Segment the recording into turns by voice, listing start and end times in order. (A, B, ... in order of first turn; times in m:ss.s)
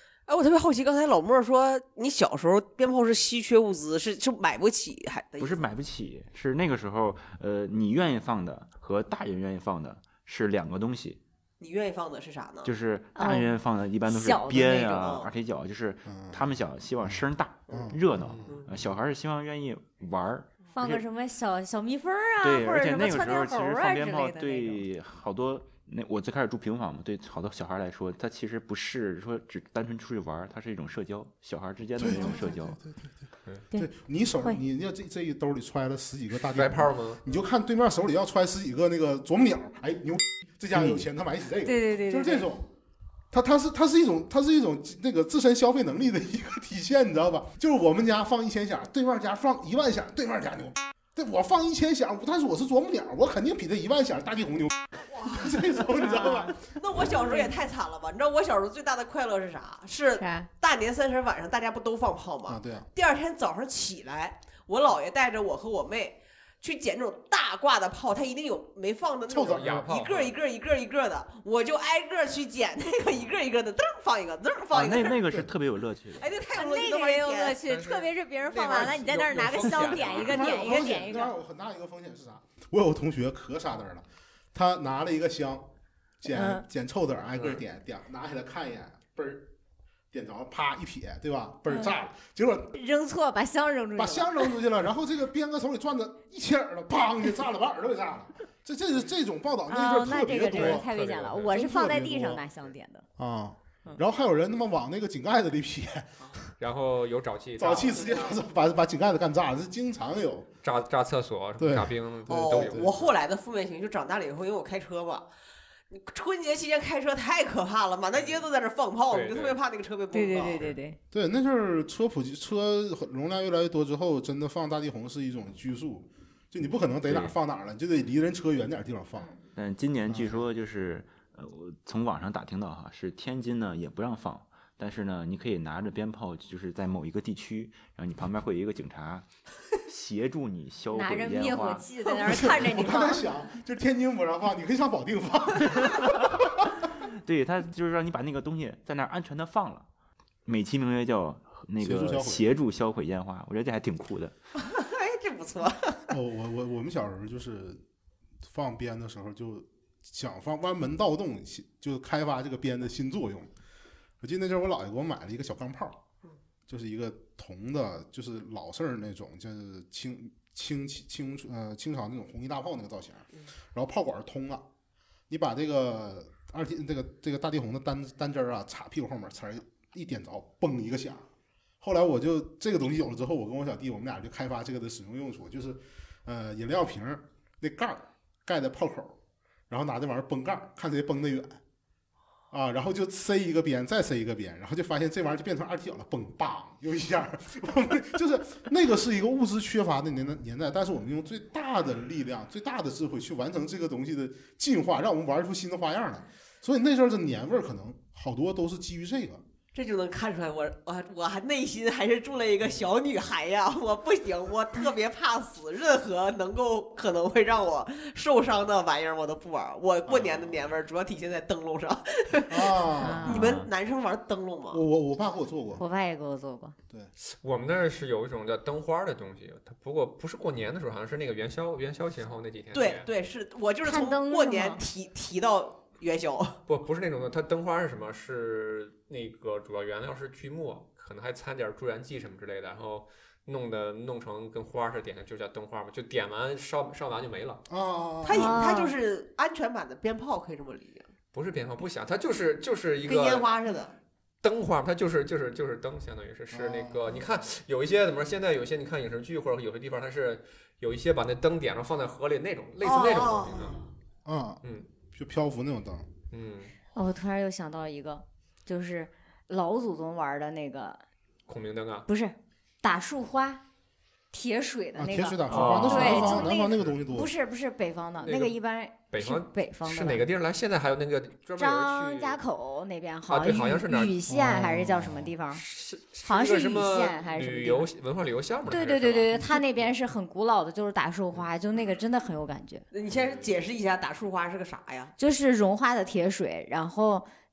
0:00.3-0:05.7 A
0:05.4-0:11.2 B
0:11.6-0:12.7 A
0:12.6-0:21.0 B
0:13.1-0:13.5 C
0:14.0-0:15.2 C
0:15.0-0:15.3 A
0:16.1-0:16.5 D
0:17.0-0:18.4 D
0:17.7-0:17.9 A
0:18.2-0:18.5 E
0:20.7-0:24.8 C
0:22.4-0:32.8 B
0:32.0-0:33.1 D
0:33.7-0:42.7 D
0:36.4-0:37.2 E
0:40.8-0:41.0 B
0:41.6-0:42.5 C
0:43.3-0:56.8 D
0:55.1-1:15.3 A
0:56.2-0:56.5 C
1:00.2-1:00.5 C
1:02.5-1:02.9 D
1:09.3-1:09.9 D
1:09.5-1:10.4 E
1:14.7-1:16.3 B
1:16.2-1:17.6 A
1:16.5-1:21.3 C
1:17.6-1:20.4 E
1:20.0-1:25.7 D
1:20.5-1:20.8 A
1:26.2-1:29.5 D
1:26.3-1:26.6 C
1:27.3-1:27.6 E
1:30.1-1:32.7 D
1:32.7-1:34.6 C
1:34.0-1:40.8 D
1:39.7-1:43.0 C
1:40.5-1:41.6 E
1:41.5-1:42.4 D
1:43.2-1:46.5 D
1:46.6-1:48.2 E
1:47.6-1:50.5 D
1:47.8-1:48.4 A
1:50.6-1:53.1 E
1:51.6-1:52.9 D
1:52.3-1:55.3 A
1:55.9-2:00.7 A
1:58.1-1:58.5 E
1:59.1-1:59.6 E
2:00.1-2:01.0 C
2:01.1-2:09.3 D
2:07.1-2:07.3 B
2:09.5-2:21.9 B
2:10.0-2:10.4 D
2:20.9-2:23.2 C
2:22.1-2:26.8 D
2:25.8-2:26.2 B
2:27.0-2:29.9 B
2:30.4-2:34.3 B
2:31.8-2:32.4 D
2:34.6-2:36.1 A
2:36.1-2:37.8 D
2:38.4-2:43.5 D
2:44.2-2:46.0 D
2:46.7-2:54.6 D
2:55.3-3:01.2 D
3:01.8-3:09.2 D
3:09.7-3:11.6 D
3:12.5-3:29.4 D
3:29.7-3:44.8 A
3:40.1-3:40.5 D
3:42.5-3:43.6 D
3:43.0-3:43.5 C
3:43.2-3:43.7 B
3:44.7-3:45.8 D
3:45.8-3:46.7 C
3:47.3-3:53.1 E
3:52.7-3:56.6 A
3:53.8-3:54.8 C
3:56.7-4:07.6 E
4:07.7-4:08.6 D
4:08.2-4:11.1 A
4:08.3-4:08.9 C
4:11.3-4:13.5 E
4:13.0-4:13.9 A
4:14.4-4:23.8 E
4:16.5-4:17.2 D
4:22.8-4:23.8 A
4:24.2-4:24.6 D
4:25.1-4:26.1 D
4:26.3-4:26.7 E
4:26.9-4:31.0 C
4:31.5-4:32.1 E
4:32.1-4:33.6 C
4:34.3-4:40.2 C
4:35.0-4:37.3 D
4:35.5-4:36.9 E
4:38.2-4:38.5 E
4:39.1-4:42.4 E
4:41.6-4:45.6 C
4:43.3-4:44.2 E
4:44.3-4:45.3 D
4:45.5-4:49.6 E
4:46.2-4:47.9 C
4:48.6-4:52.8 C
4:52.9-4:55.1 A
4:53.1-4:53.5 E
4:55.2-4:57.3 C